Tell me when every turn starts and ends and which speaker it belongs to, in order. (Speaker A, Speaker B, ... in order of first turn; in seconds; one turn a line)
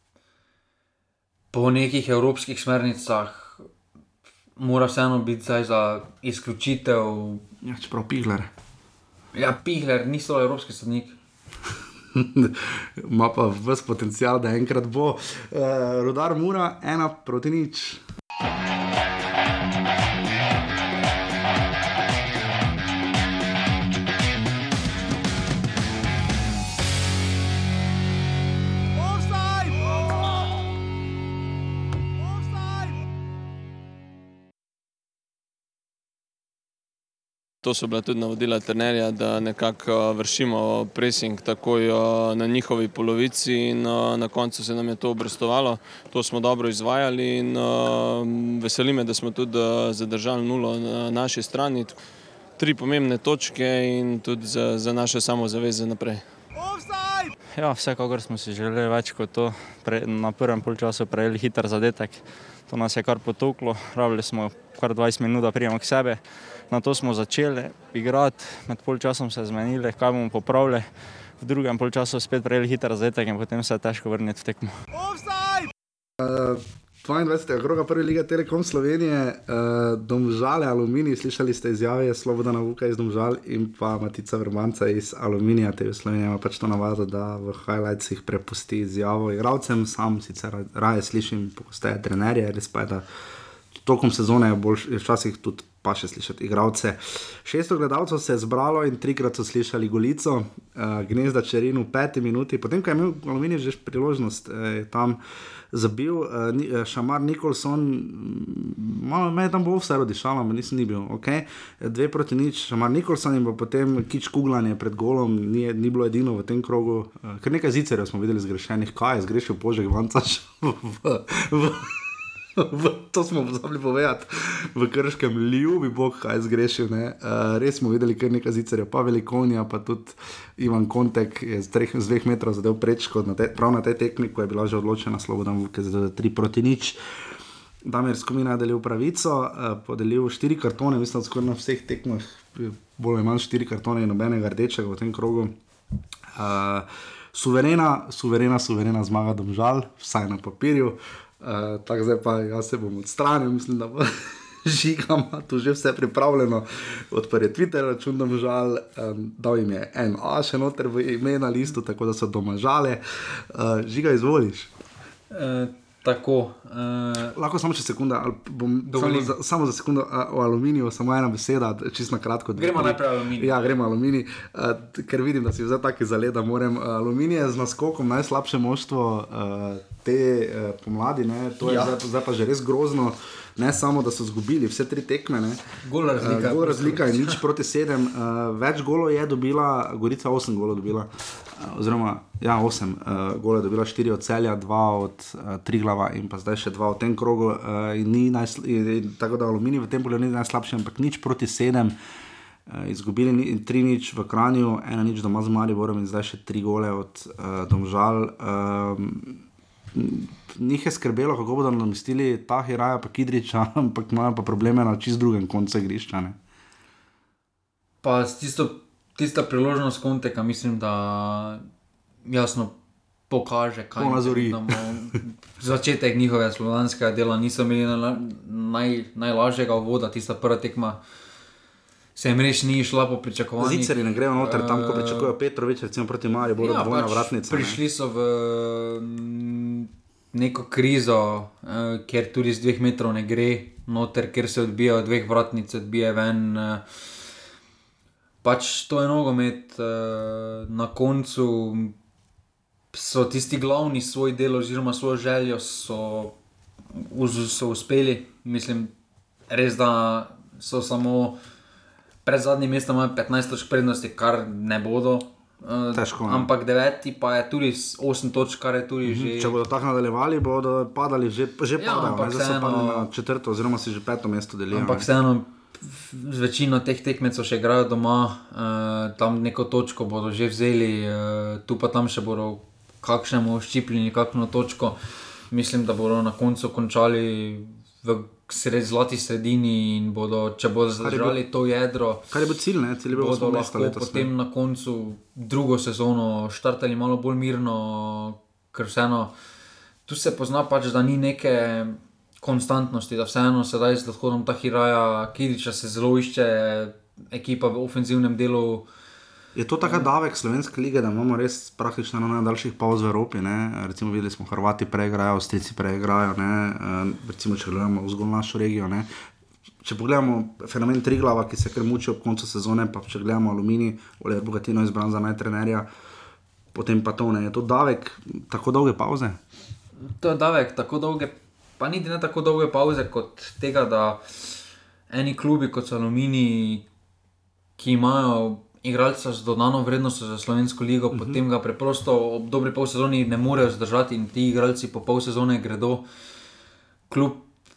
Speaker A: 1.5-3.6
Speaker A: 4.6-7.4
Speaker B: 7.6-8.5
Speaker A: 9.3-11.1
Speaker B: 12.1-18.0
Speaker C: 37.6-52.0
Speaker C: 52.6-56.2
Speaker D: 57.5-70.9
Speaker D: 71.4-74.7
Speaker B: 76.2-93.0
Speaker B: 93.8-105.2
Speaker B: 105.7-137.0
Speaker B: 137.8-145.5
Speaker B: 146.3-164.7
Speaker A: 165.3-167.4
Speaker B: 167.3-185.6
Speaker A: 168.8-169.3
Speaker A: 172.5-173.6
Speaker A: 181.6-181.9
Speaker A: 185.8-187.4
Speaker B: 186.2-201.9
Speaker B: 202.7-209.4
Speaker B: 209.9-216.3
Speaker A: 218.0-221.6
Speaker A: 222.2-222.7
Speaker A: 223.3-231.0
Speaker B: 224.0-224.8
Speaker A: 232.2-235.3
Speaker B: 233.6-237.8
Speaker A: 236.6-246.8
Speaker A: 248.4-251.9
Speaker A: 252.9-256.3
Speaker A: 256.9-258.9
Speaker A: 259.5-261.4
Speaker A: 262.2-269.6
Speaker B: 265.9-266.5
Speaker B: 269.0-275.1
Speaker A: 271.8-273.1
Speaker A: 274.7-285.0
Speaker A: 285.5-292.3
Speaker B: 291.0-291.4
Speaker B: 292.3-294.3
Speaker A: 293.1-299.3
Speaker A: 300.1-308.9
Speaker B: 309.5-319.1
Speaker A: 309.8-310.1
Speaker B: 319.8-325.9
Speaker B: 326.7-329.4
Speaker A: 330.2-334.5
Speaker A: 335.1-336.8
Speaker A: 337.8-346.0
Speaker B: 341.1-341.4
Speaker A: 347.1-347.5